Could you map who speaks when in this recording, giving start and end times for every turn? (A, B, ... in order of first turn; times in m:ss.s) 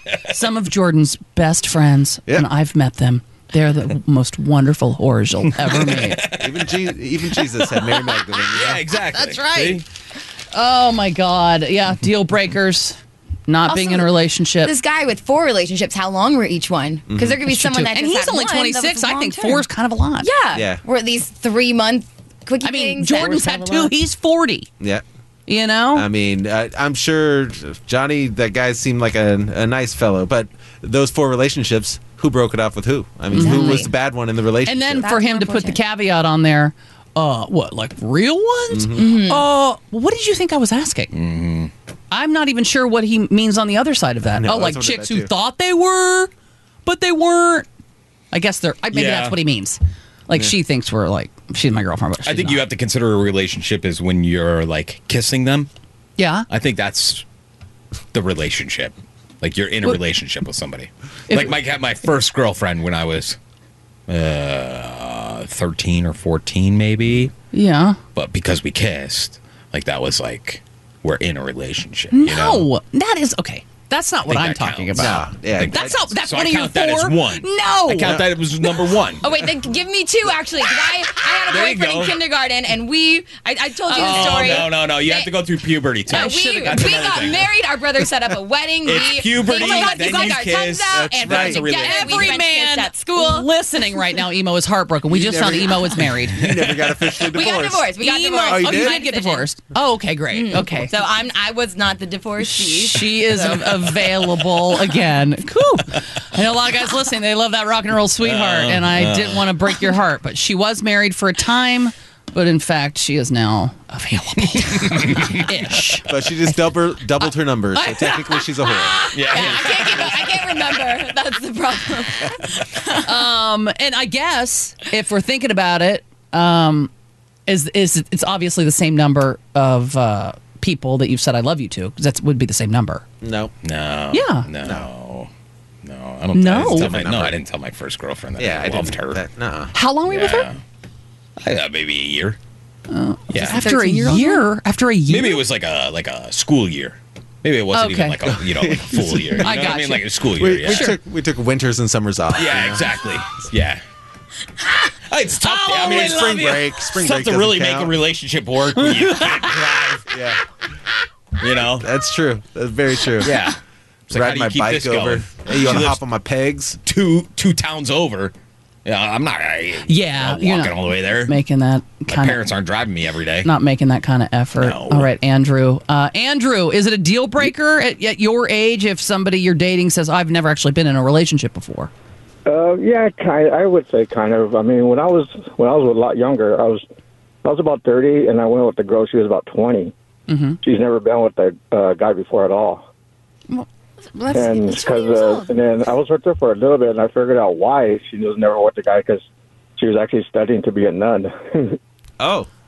0:00.3-0:06.2 A
0:05.7-0:06.7 B
0:06.4-0:08.8 C
0:08.5-0:09.8 B
0:09.1-0:09.8 A
0:10.5-0:14.7 A
0:13.7-0:14.1 D
0:14.6-0:19.7 D
0:17.1-0:17.4 C
0:17.5-0:20.3 A
0:20.2-0:23.4 D
0:20.5-0:20.8 C
0:22.6-0:24.7 A
0:23.2-0:23.9 B
0:25.5-0:26.1 A
0:25.9-0:35.1 C
0:33.3-0:33.8 A
0:33.3-0:33.9 D
0:34.7-0:41.1 A
0:35.0-0:35.8 D
0:38.7-0:39.0 C
0:39.0-0:39.4 D
0:41.1-0:41.7 B
0:42.1-0:46.3 A
0:44.2-0:45.3 C
0:46.8-0:47.7 A
0:48.3-0:52.7 A
0:48.9-0:49.4 B
0:52.2-0:55.7 B
0:56.2-0:56.5 A
0:56.5-0:57.2 B
0:58.1-1:03.4 B
1:01.3-1:01.6 A
1:04.1-1:07.3 B
1:07.5-1:08.0 A
1:08.2-1:12.7 B
1:12.1-1:18.2 A
1:14.3-1:19.6 B
1:15.0-1:16.0 C
1:19.2-1:25.4 D
1:20.8-1:22.2 B
1:23.8-1:24.7 A
1:24.0-1:27.5 B
1:26.1-1:27.2 A
1:26.1-1:33.5 D
1:28.8-1:32.2 B
1:29.4-1:30.4 A
1:30.9-1:31.6 C
1:31.7-1:36.5 A
1:35.1-1:37.9 C
1:37.2-1:39.5 D
1:38.0-1:40.9 A
1:38.4-1:39.0 C
1:40.3-1:43.9 D
1:42.4-1:56.7 A
1:48.3-1:49.5 B
1:54.9-1:55.4 B
1:56.1-1:59.1 C
1:57.2-2:00.0 A
1:59.1-2:03.0 D
1:59.1-2:00.3 B
2:03.0-2:06.9 A
2:07.5-2:13.0 A
2:13.2-2:13.5 C
2:13.6-2:15.3 B
2:14.1-2:14.5 A
2:14.6-2:14.9 C
2:15.8-2:19.2 B
2:16.3-2:17.0 A
2:16.6-2:17.4 C
2:18.4-2:19.7 C
2:19.7-2:20.5 A
2:20.1-2:20.6 B
2:21.4-2:22.4 B
2:22.9-2:25.4 A
2:23.3-2:23.7 B
2:23.6-2:24.4 D
2:25.1-2:30.9 B
2:27.7-2:28.2 A
2:28.3-2:29.8 C
2:29.4-2:30.1 A
2:30.4-2:32.9 C
2:30.7-2:31.0 A
2:32.3-2:33.8 B
2:35.1-2:40.2 B
2:35.4-2:36.2 A
2:35.7-2:38.0 C
2:38.8-2:39.8 A
2:40.1-2:40.4 C
2:41.4-2:41.9 B
2:41.8-2:43.3 C
2:43.2-2:43.6 B
2:44.1-2:46.0 B
2:44.1-2:46.8 C
2:46.8-2:48.3 B
2:48.9-2:51.4 B
2:49.8-2:52.4 A
2:52.1-2:53.5 B
2:53.4-3:01.9 A
2:54.6-2:55.1 B
3:02.5-3:06.8 E
3:07.4-3:09.9 E
3:10.3-3:10.6 A
3:10.6-3:12.8 E
3:13.5-3:15.5 A
3:14.3-3:19.2 E
3:19.8-3:21.8 E
3:22.2-3:22.5 C